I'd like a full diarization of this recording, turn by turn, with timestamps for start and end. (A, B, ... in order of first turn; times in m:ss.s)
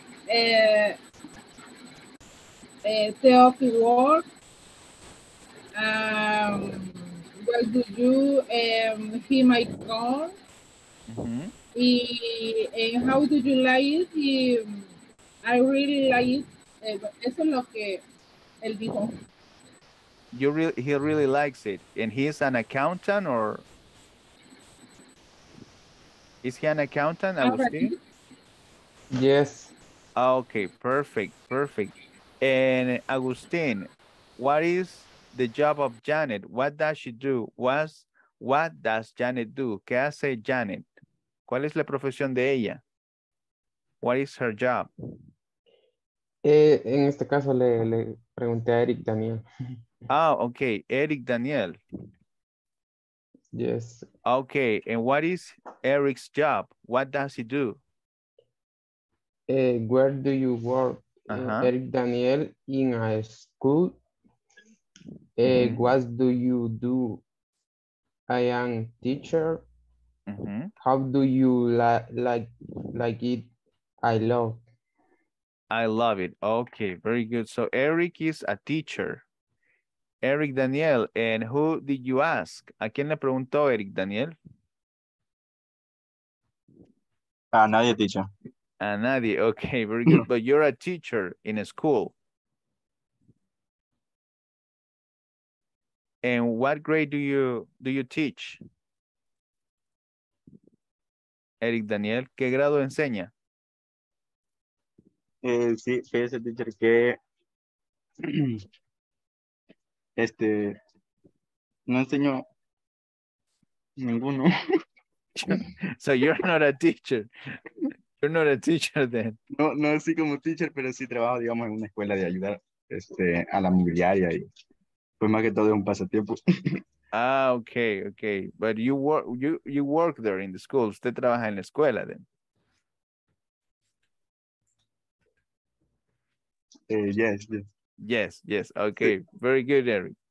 0:00.3-0:01.0 A
0:02.8-0:04.2 A
0:05.8-0:10.3 A
0:11.1-0:11.5 B
0:11.8-0:14.9 A
0:15.4-0:18.0 A
0:18.6-0:19.2 A
0:20.3-0:23.6 B
0:26.4-0:27.9 B
0:27.4-0:28.0 A
0:29.1-0:29.7 C
0:30.2-0:40.9 B
0:41.5-0:42.8 B
0:44.0-0:44.9 B
0:46.4-0:49.4 C
0:50.1-0:51.8 B
0:53.5-0:54.0 C
0:54.2-0:57.8 B
0:59.5-1:04.0 C
1:01.3-1:01.7 B
1:05.4-1:07.2 C
1:05.5-1:05.9 B
1:08.3-1:09.6 C
1:10.3-1:10.7 B
1:10.8-1:13.5 C
1:14.0-1:14.6 C
1:15.7-1:19.2 B
1:20.2-1:24.4 B
1:27.5-1:28.3 D
1:28.8-1:32.1 B
1:36.2-1:38.6 B
1:41.6-1:43.3 B
1:45.4-1:47.2 D
1:48.2-1:48.6 D
1:50.2-1:50.7 D
1:51.9-1:52.4 D
1:54.0-1:54.5 D
1:55.4-1:57.3 B
1:58.2-1:59.4 B
1:59.6-2:04.5 D
2:05.2-2:06.3 D
2:07.1-2:12.2 B
2:16.9-2:17.6 D
2:18.0-2:20.1 B